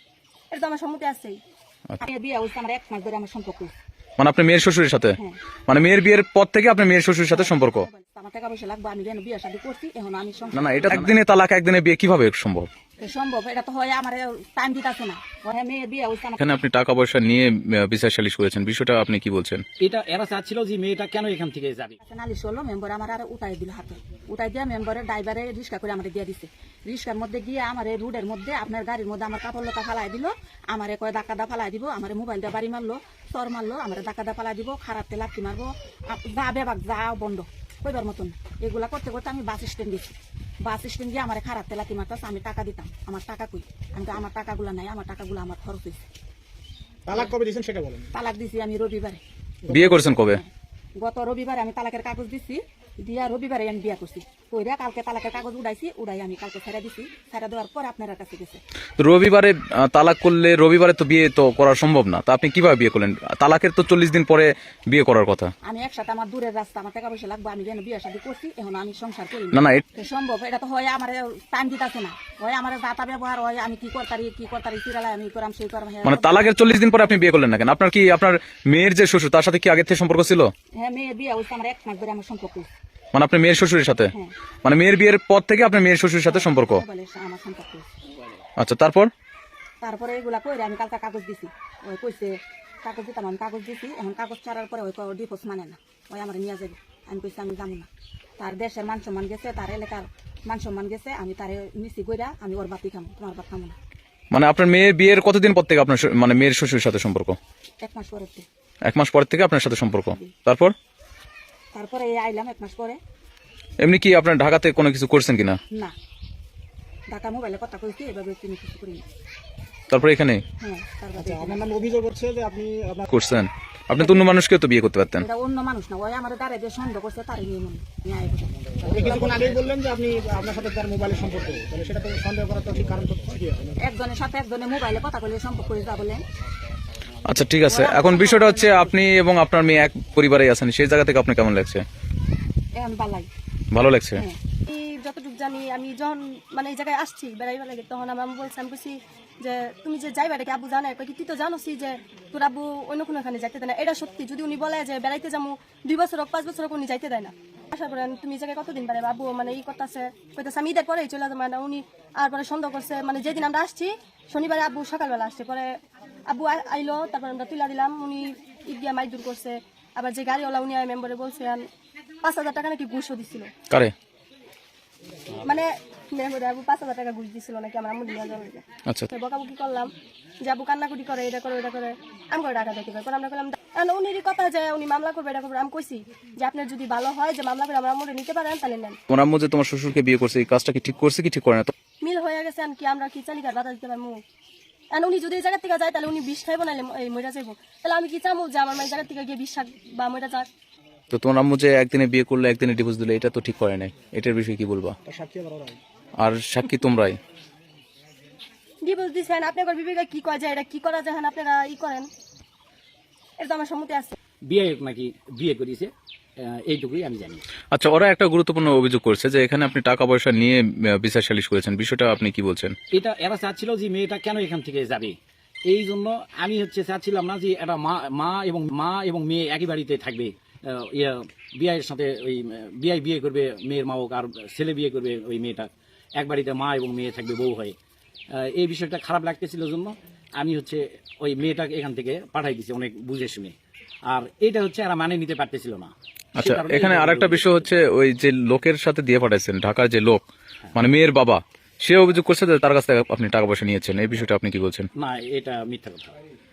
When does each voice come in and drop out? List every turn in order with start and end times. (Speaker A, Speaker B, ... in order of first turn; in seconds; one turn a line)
Speaker A: 0.5-1.4
Speaker B: 2.0-3.7
Speaker C: 4.2-5.2
Speaker C: 5.7-7.8
Speaker B: 7.3-11.1
Speaker C: 10.5-12.7
Speaker B: 13.0-16.4
Speaker C: 16.4-19.6
Speaker D: 19.8-22.0
Speaker B: 22.0-46.0
Speaker E: 47.1-48.1
Speaker B: 48.1-49.2
Speaker E: 49.6-50.0
Speaker C: 49.7-50.4
Speaker B: 50.3-58.6
Speaker C: 59.0-65.5
Speaker B: 65.6-76.5
Speaker C: 69.5-69.8
Speaker C: 76.0-80.5
Speaker B: 80.8-82.7
Speaker C: 83.1-84.1
Speaker C: 84.6-86.8
Speaker B: 86.3-87.9
Speaker C: 88.6-89.1
Speaker B: 89.8-97.9
Speaker B: 98.4-103.7
Speaker C: 104.3-107.4
Speaker B: 107.8-108.5
Speaker C: 108.8-110.7
Speaker B: 111.7-113.0
Speaker C: 113.8-115.6
Speaker B: 117.1-119.0
Speaker C: 119.9-120.4
Speaker B: 120.6-121.7
Speaker E: 121.2-123.1
Speaker C: 123.1-125.2
Speaker B: 124.0-124.2
Speaker B: 125.2-129.6
Speaker E: 128.8-133.7
Speaker B: 133.8-136.2
Speaker C: 137.2-141.8
Speaker B: 137.7-138.9
Speaker B: 142.8-143.3
Speaker C: 143.7-144.2
Speaker A: 144.6-165.7
Speaker A: 166.3-171.7
Speaker A: 172.2-173.5
Speaker C: 173.7-173.9
Speaker A: 175.4-179.9
Speaker A: 180.4-189.0
Speaker C: 189.1-191.7
Speaker A: 192.0-194.2
Speaker A: 194.9-200.5
Speaker C: 201.1-205.0
Speaker E: 205.1-205.8
Speaker C: 206.2-207.2
Speaker A: 208.8-212.1
Speaker A: 213.4-214.1
Speaker D: 214.5-217.4
Speaker C: 217.7-222.7
Speaker D: 222.9-225.2
Speaker D: 225.7-237.8
Speaker D: 238.3-243.5
Speaker D: 244.1-247.7
Speaker C: 246.4-254.9
Speaker D: 255.0-256.1